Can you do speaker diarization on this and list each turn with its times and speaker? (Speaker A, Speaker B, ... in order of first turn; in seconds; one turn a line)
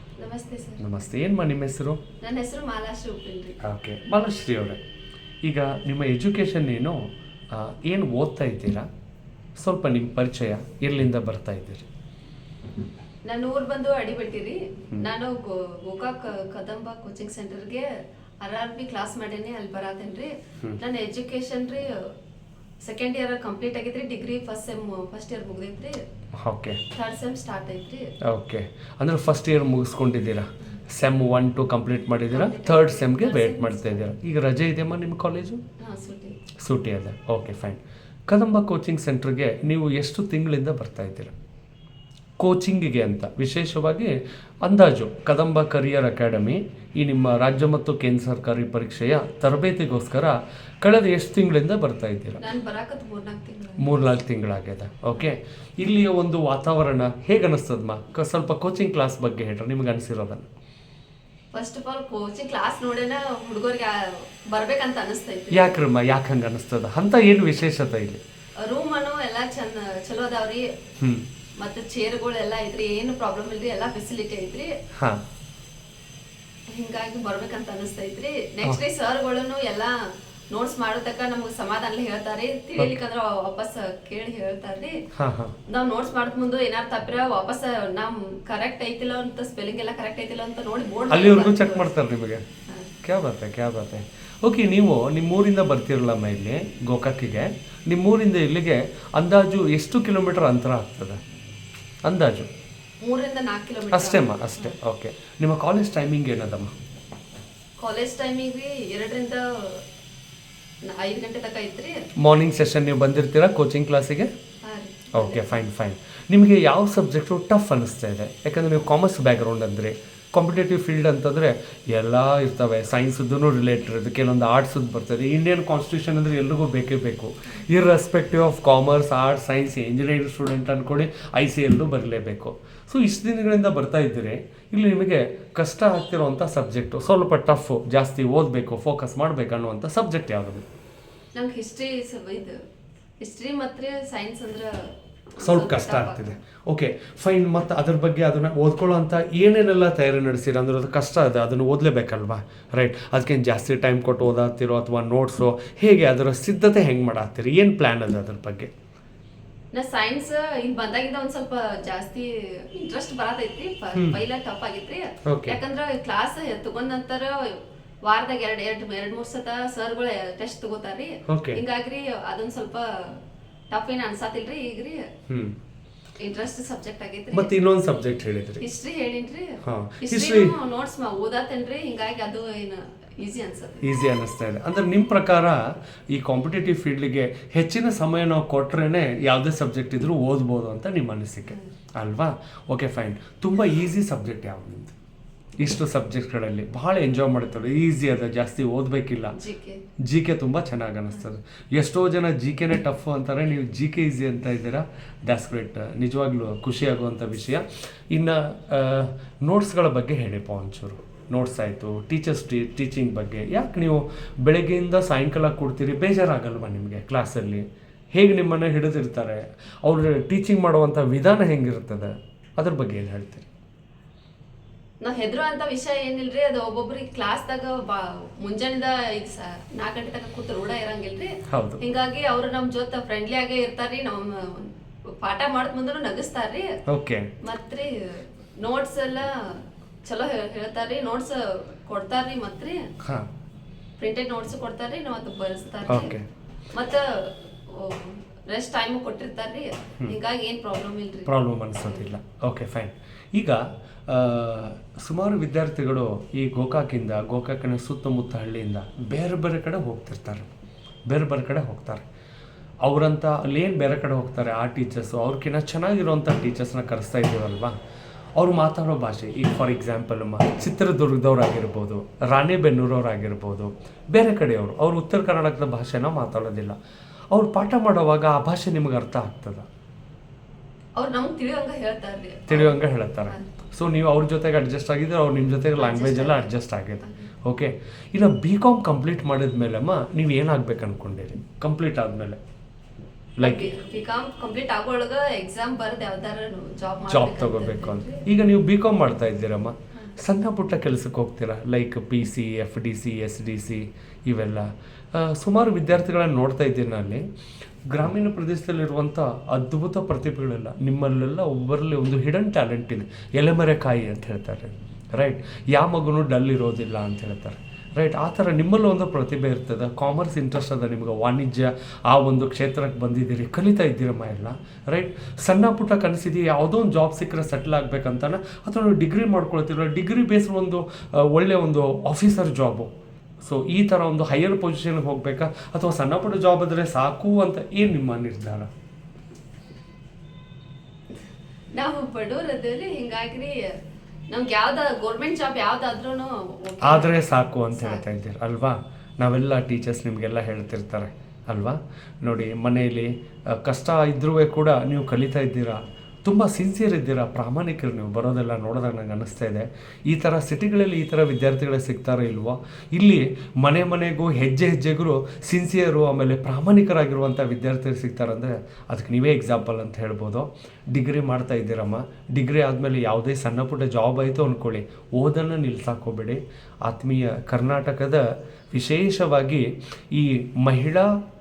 Speaker A: 0.2-0.8
Speaker B: 0.8-2.0
Speaker A: 2.2-3.6
Speaker B: 3.6-4.8
Speaker B: 5.5-7.0
Speaker B: 7.5-8.9
Speaker B: 9.6-11.9
Speaker A: 13.3-17.9
Speaker A: 18.4-22.1
Speaker A: 22.9-26.0
Speaker B: 26.3-26.8
Speaker A: 26.9-28.1
Speaker B: 28.2-35.6
Speaker A: 32.3-34.0
Speaker A: 35.8-36.4
Speaker B: 36.6-41.3
Speaker B: 42.4-52.4
Speaker A: 52.4-53.9
Speaker B: 53.8-60.5
Speaker A: 61.5-65.8
Speaker B: 65.5-68.2
Speaker A: 68.6-70.7
Speaker B: 71.0-71.3
Speaker A: 71.6-74.7
Speaker B: 74.9-75.2
Speaker A: 76.8-80.0
Speaker A: 80.5-85.0
Speaker B: 85.2-85.5
Speaker A: 85.7-91.9
Speaker B: 91.1-92.5
Speaker B: 93.0-101.2
Speaker B: 102.0-102.5
Speaker A: 103.0-104.8
Speaker B: 103.9-106.7
Speaker A: 107.8-109.8
Speaker A: 110.8-112.1
Speaker B: 112.2-114.3
Speaker A: 114.6-115.6
Speaker B: 115.1-140.7
Speaker A: 141.3-142.6
Speaker A: 143.2-146.3
Speaker B: 145.4-158.7
Speaker A: 159.7-175.1
Speaker B: 165.2-165.6
Speaker B: 171.3-171.6
Speaker B: 175.3-175.6
Speaker A: 176.2-177.5
Speaker B: 177.3-178.6
Speaker A: 178.6-183.9
Speaker B: 179.6-180.6
Speaker B: 183.8-195.0
Speaker B: 195.6-199.4
Speaker A: 199.3-199.8
Speaker B: 200.0-223.5
Speaker A: 225.0-236.7
Speaker B: 231.5-231.8
Speaker B: 236.9-237.3
Speaker A: 237.4-242.8
Speaker B: 243.0-243.3
Speaker A: 244.0-246.2
Speaker B: 245.9-246.2
Speaker A: 246.7-252.1
Speaker B: 251.3-260.5
Speaker B: 261.1-262.0
Speaker B: 262.8-267.8
Speaker B: 268.4-276.8
Speaker B: 277.3-279.7
Speaker A: 281.0-283.5
Speaker B: 282.5-292.4
Speaker A: 285.8-287.3
Speaker B: 293.4-293.8
Speaker A: 293.4-298.3
Speaker B: 297.1-307.3
Speaker B: 307.9-332.9
Speaker B: 333.4-338.7
Speaker A: 341.8-343.8
Speaker A: 344.3-348.0
Speaker B: 346.8-381.1